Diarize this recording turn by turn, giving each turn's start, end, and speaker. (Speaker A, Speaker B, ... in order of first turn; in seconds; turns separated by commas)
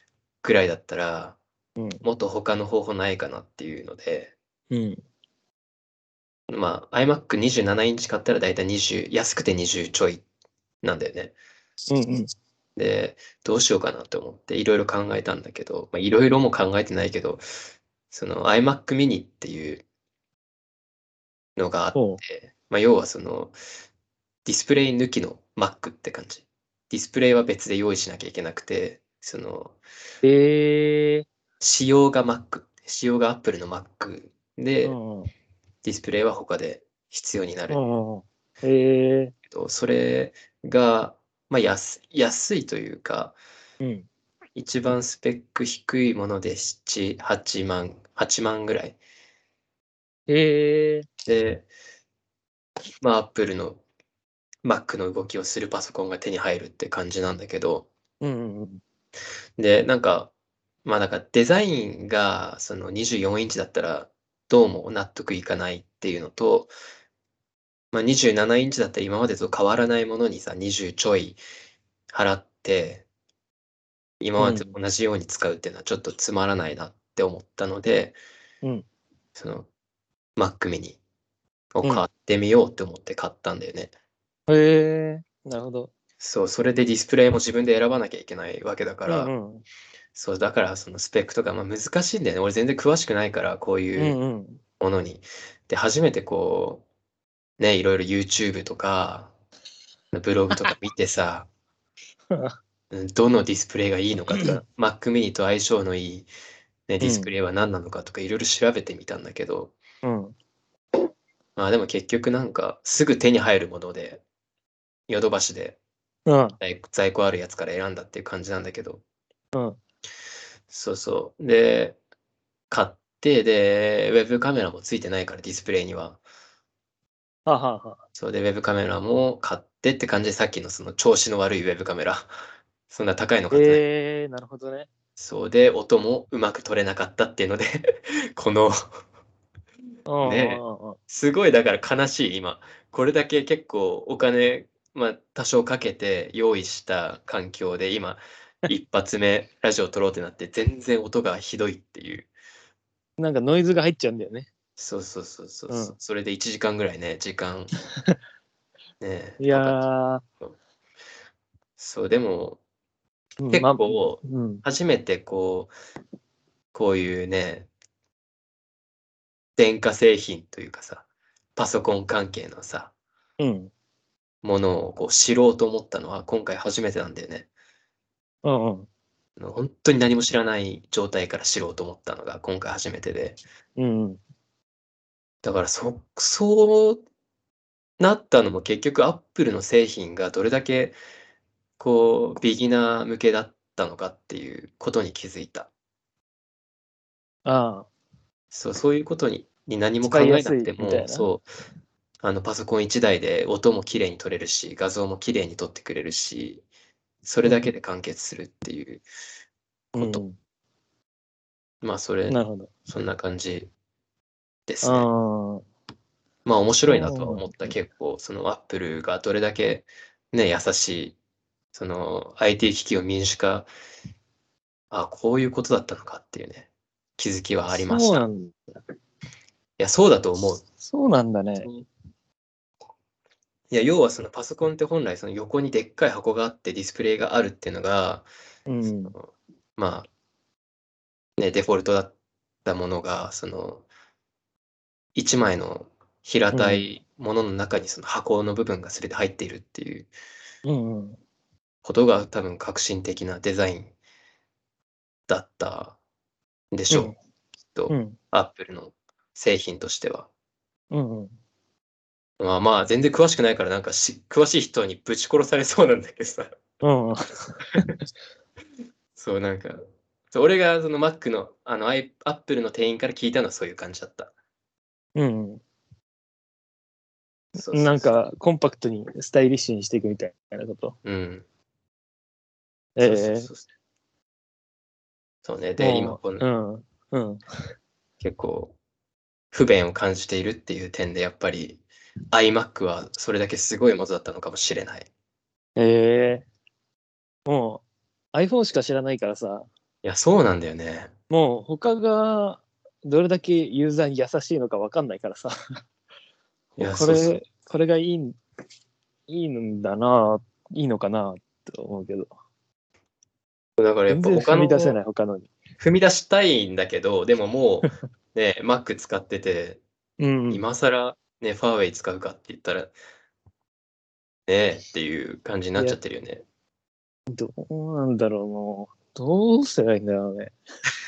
Speaker A: 0.4-1.4, Speaker B: 1.8-2.0, Speaker A: 2.0-4.3, Speaker B: 4.7-5.0, Speaker A: 6.5-10.2, Speaker A: 10.8-11.3, Speaker B: 11.9-12.3, Speaker A: 12.8-17.4, Speaker A: 18.1-19.8, Speaker A: 21.6-23.6, Speaker B: 21.9-22.2, Speaker A: 24.4-29.8, Speaker B: 30.2-31.3, Speaker A: 31.6-35.0, Speaker B: 34.8-35.3, Speaker A: 35.8-37.8, Speaker B: 37.7-39.3, Speaker A: 39.5-43.4, Speaker B: 43.8-44.0, Speaker A: 44.5-49.0, Speaker B: 50.3-51.1, Speaker A: 51.2-51.7, Speaker A: 53.0-53.8, Speaker A: 54.6-57.9, Speaker B: 58.2-58.8, Speaker A: 59.6-60.3, Speaker A: 60.8-66.7, Speaker A: 67.9-71.4, Speaker A: 72.1-73.0, Speaker A: 74.2-78.2, Speaker B: 74.4-74.7, Speaker A: 79.3-79.7, Speaker A: 80.3-81.0, Speaker A: 81.7-83.9, Speaker B: 84.5-85.9, Speaker A: 86.2-89.3, Speaker B: 89.1-89.6, Speaker A: 90.1-94.2, Speaker B: 94.0-94.6, Speaker A: 94.8-96.8, Speaker A: 97.6-99.3, Speaker A: 100.1-101.5, Speaker B: 102.3-102.5, Speaker A: 102.9-106.3, Speaker A: 106.9-109.7, Speaker B: 107.0-107.3, Speaker B: 110.0-110.3, Speaker A: 111.5-114.2, Speaker A: 115.1-115.8, Speaker B: 116.3-116.5, Speaker A: 116.6-119.0, Speaker B: 119.5-119.8, Speaker A: 120.7-122.0, Speaker A: 122.7-126.2, Speaker B: 127.5-128.0, Speaker A: 128.2-132.3, Speaker A: 132.9-133.8, Speaker B: 133.5-134.9, Speaker A: 135.2-138.8, Speaker B: 140.1-141.0, Speaker A: 140.2-152.3, Speaker B: 153.2-154.5, Speaker A: 154.8-157.7, Speaker B: 155.7-155.9, Speaker A: 159.0-159.9, Speaker B: 159.4-160.2, Speaker A: 161.8-162.6, Speaker B: 163.4-164.6, Speaker A: 163.5-165.7, Speaker A: 166.7-167.7, Speaker A: 169.6-172.9, Speaker B: 173.4-173.7, Speaker A: 174.4-177.5, Speaker B: 178.4-178.9, Speaker A: 179.4-183.4, Speaker B: 183.8-184.2, Speaker A: 185.4-187.0, Speaker A: 188.0-190.9, Speaker A: 191.8-195.7, Speaker B: 197.4-197.9, Speaker A: 198.5-201.4, Speaker B: 200.0-201.3, Speaker A: 202.2-206.6, Speaker A: 207.2-209.0, Speaker A: 209.9-210.2, Speaker B: 209.9-210.4, Speaker A: 211.8-213.7, Speaker B: 212.3-212.7, Speaker A: 214.7-215.1, Speaker B: 214.8-215.6, Speaker A: 216.4-221.2, Speaker B: 216.9-217.7, Speaker A: 221.7-223.7, Speaker A: 224.9-228.2, Speaker B: 227.8-228.6, Speaker A: 229.8-230.6, Speaker B: 230.8-231.7, Speaker A: 233.7-238.3, Speaker B: 238.7-239.1, Speaker A: 239.1-240.1, Speaker A: 241.4-242.1, Speaker A: 242.6-243.8, Speaker A: 245.1-250.1, Speaker B: 246.5-246.9, Speaker B: 250.6-251.2, Speaker A: 251.8-253.9, Speaker A: 255.3-256.0, Speaker A: 256.7-257.1, Speaker B: 256.9-257.2, Speaker A: 257.7-260.3, Speaker B: 257.9-258.1, Speaker B: 260.9-261.3, Speaker A: 262.4-266.5, Speaker B: 266.8-267.9, Speaker A: 269.1-274.3, Speaker B: 275.1-275.6, Speaker A: 277.6-278.1, Speaker B: 277.7-280.9, Speaker A: 281.0-281.4, Speaker B: 282.9-283.5, Speaker A: 283.0-283.6, Speaker A: 285.4-286.4, Speaker B: 285.8-287.4, Speaker A: 288.2-288.7, Speaker A: 289.5-295.1, Speaker B: 295.8-296.4, Speaker B: 297.5-297.8, Speaker B: 298.3-299.7, Speaker A: 300.0-301.1, Speaker B: 301.3-305.5, Speaker B: 306.8-308.4, Speaker A: 306.8-307.3, Speaker B: 309.3-312.3, Speaker A: 313.8-315.0, Speaker B: 314.1-315.5, Speaker A: 315.8-319.8, Speaker B: 320.2-320.6, Speaker A: 320.5-322.9, Speaker A: 324.5-326.4, Speaker B: 327.3-330.5